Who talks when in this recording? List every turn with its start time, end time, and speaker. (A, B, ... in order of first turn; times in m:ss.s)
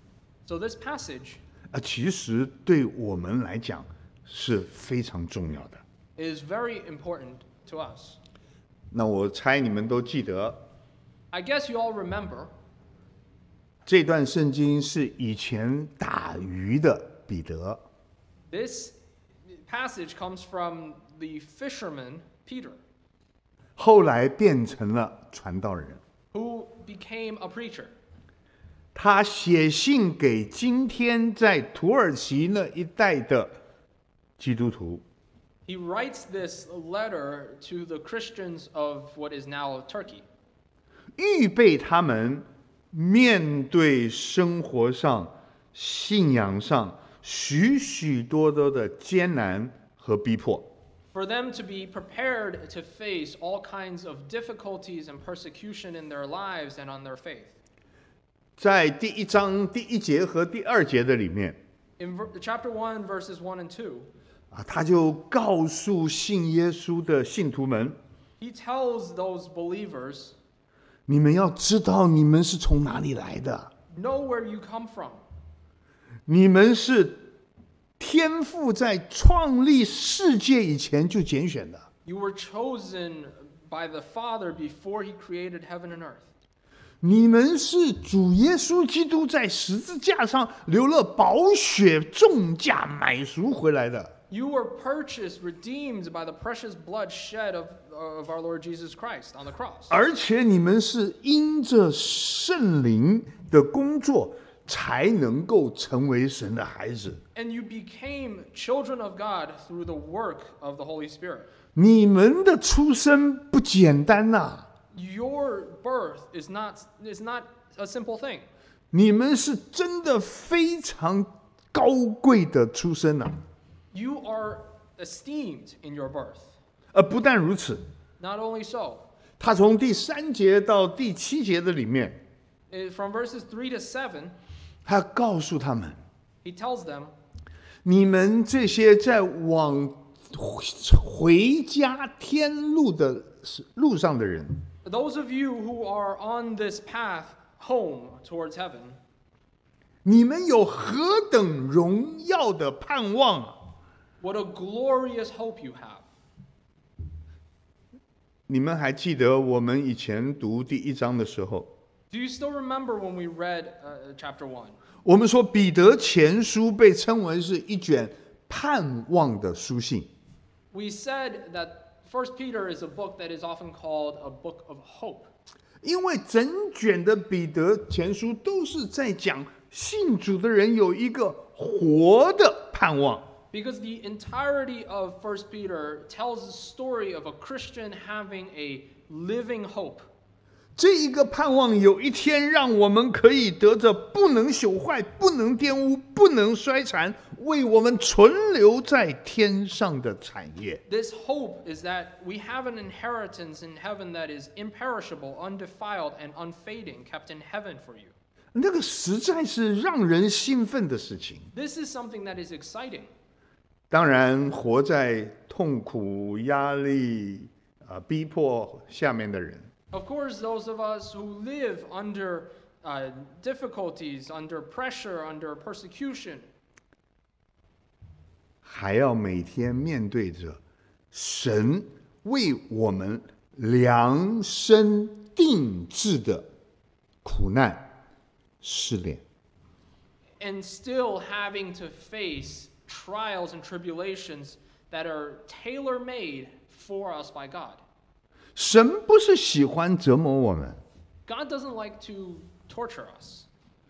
0:00.4-0:01.4 A
0:01.7-0:05.8 B
0:06.2-0:08.2 A
0:08.9-0:10.7 B
0:11.3-0:12.5 A
0:13.8-0:17.8 B
0:18.5-0:19.0 A
0:19.5-0:22.8 A
0:23.8-0:26.0 B
0:26.3-0:27.9 A
0:28.9-0:33.6 B
0:34.4-0:35.0 B
0:35.7-0:40.2 A
0:41.2-0:50.7 B
0:51.1-0:57.5 A
0:58.6-1:01.6 B
1:02.0-1:04.1 A
1:04.5-1:08.0 B
1:08.4-1:10.3 A
1:11.1-1:13.7 B
1:13.9-1:15.2 A
1:16.3-1:17.3 B
1:18.0-1:21.9 B
1:22.0-1:26.3 A
1:27.0-1:34.1 B
1:34.3-1:39.9 A
1:39.9-1:47.2 B
1:47.3-1:51.5 A
1:51.7-1:54.7 B
1:54.9-1:58.4 A
1:58.9-2:03.4 B
2:03.9-2:06.6 A
2:06.9-2:07.8 B
2:08.2-2:09.0 A
2:09.4-2:12.2 B
2:12.7-2:14.3 A
2:14.8-2:16.0 B
2:16.4-2:17.1 A
2:17.8-2:24.6 B
2:24.8-2:29.0 A
2:30.0-2:33.7 B
2:34.2-2:36.0 A
2:38.5-2:41.7 B
2:42.1-2:44.8 A
2:45.0-2:50.1 B
2:50.7-2:55.3 A
2:55.8-3:03.3 B
3:03.5-3:10.0 A
3:10.8-3:20.8 B
3:20.9-3:28.1 A
3:28.5-3:31.5 B
3:31.5-3:33.1 A
3:33.9-3:39.7 B
3:39.9-3:46.4 A
3:48.6-3:50.6 B
3:51.1-3:56.5 B
3:57.2-3:57.9 B
3:58.6-3:59.2 B
4:00.4-4:07.8 A
4:08.6-4:10.8 B
4:11.3-4:13.5 A